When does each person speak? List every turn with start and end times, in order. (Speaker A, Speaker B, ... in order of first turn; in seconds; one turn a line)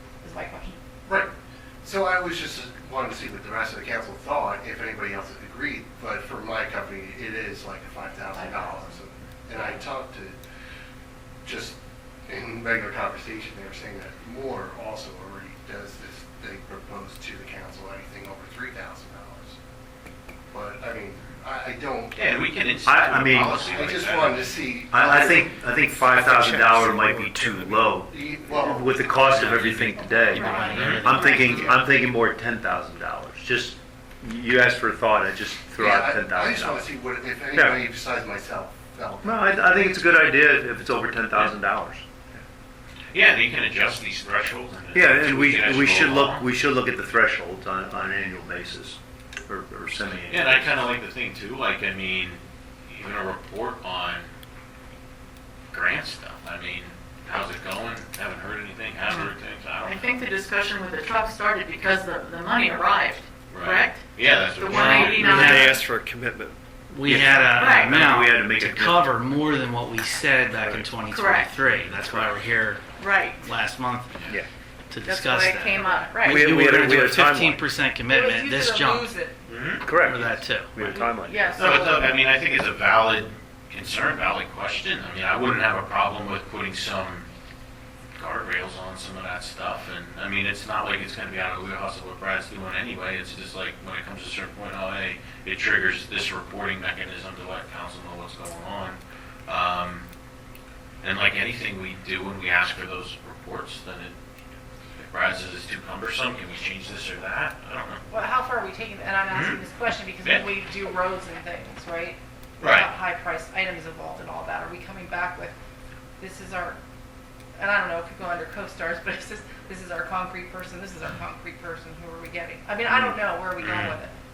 Speaker A: 0.2-0.8
Speaker B: 1.1-1.3
Speaker B: 1.8-10.3
Speaker A: 8.3-9.0
Speaker B: 11.4-19.6
Speaker B: 20.5-22.1
Speaker C: 22.1-24.5
Speaker D: 22.9-23.5
Speaker B: 23.4-25.5
Speaker D: 24.9-36.9
Speaker E: 26.0-28.0
Speaker B: 28.1-29.1
Speaker F: 29.3-31.8
Speaker A: 30.3-31.7
Speaker C: 30.7-31.0
Speaker B: 35.8-39.5
Speaker D: 37.5-37.8
Speaker D: 39.2-42.0
Speaker C: 43.1-46.5
Speaker D: 44.9-50.7
Speaker C: 50.3-54.3
Speaker C: 55.7-60.0
Speaker G: 59.8-64.0
Speaker C: 63.5-65.5
Speaker G: 64.6-65.8
Speaker F: 64.7-65.8
Speaker E: 65.2-66.5
Speaker F: 66.9-72.8
Speaker D: 67.0-69.0
Speaker G: 71.1-71.6
Speaker A: 73.0-73.5
Speaker F: 73.4-74.3
Speaker F: 74.9-79.1
Speaker A: 75.0-76.7
Speaker G: 75.8-76.2
Speaker D: 76.2-77.6
Speaker A: 78.1-79.4
Speaker C: 79.5-79.9
Speaker D: 79.8-81.6
Speaker F: 80.0-80.8
Speaker A: 80.8-82.2
Speaker C: 81.6-87.3
Speaker C: 88.2-100.1
Speaker C: 101.0-104.1
Speaker C: 105.0-108.0
Speaker A: 108.1-115.5
Speaker C: 109.3-109.6
Speaker C: 112.6-112.9
Speaker A: 116.2-116.8
Speaker A: 117.6-124.1
Speaker D: 122.9-123.2
Speaker C: 123.6-124.0